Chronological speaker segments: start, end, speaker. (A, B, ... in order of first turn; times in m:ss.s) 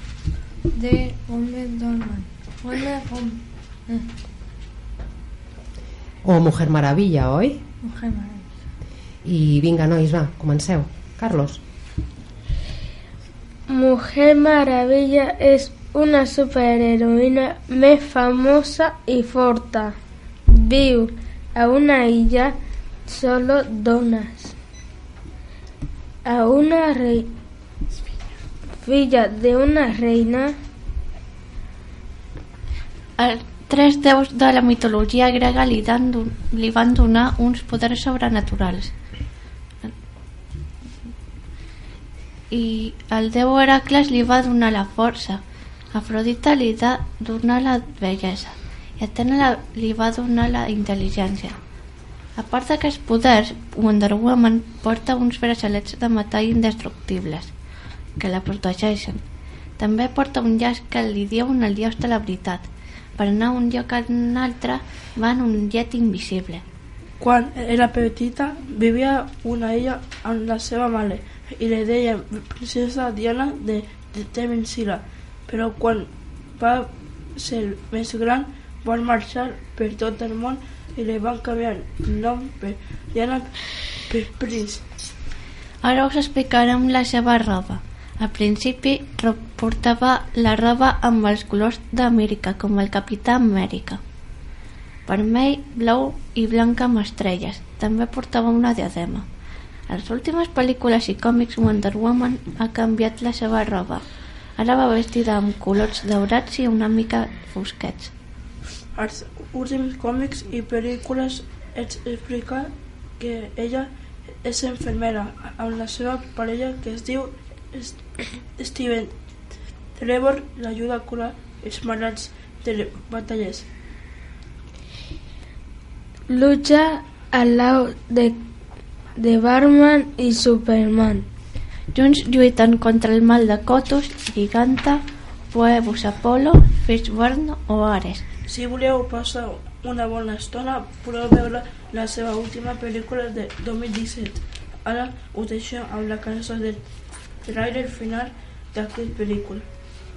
0:00.7-0:04.1 A
0:06.2-0:07.6 B
0:07.8-0:08.5 A
0:09.2-0:11.6 B
0:13.7-0:20.0 C
0:20.5-0:24.6 C
0:26.3-0:27.3 C
0:28.8-0:30.6 C
0:33.2-0:38.9 D
0:42.5-0:45.4 D
0:45.9-0:51.6 D
0:52.4-0:57.5 D
0:58.2-0:59.2 D
0:59.8-1:06.6 D
1:07.2-1:23.5 E
1:24.1-1:24.8 E
1:25.8-1:34.0 D
1:35.1-1:39.3 D
1:39.9-1:44.0 D
1:44.6-1:48.1 D
1:49.0-1:53.9 E
1:54.4-1:58.0 E
1:58.6-1:59.1 E
2:00.0-2:03.7 E
2:06.3-2:08.4 C
2:09.2-2:11.3 C
2:11.9-2:18.2 D
2:18.5-2:26.8 E
2:27.4-2:29.6 E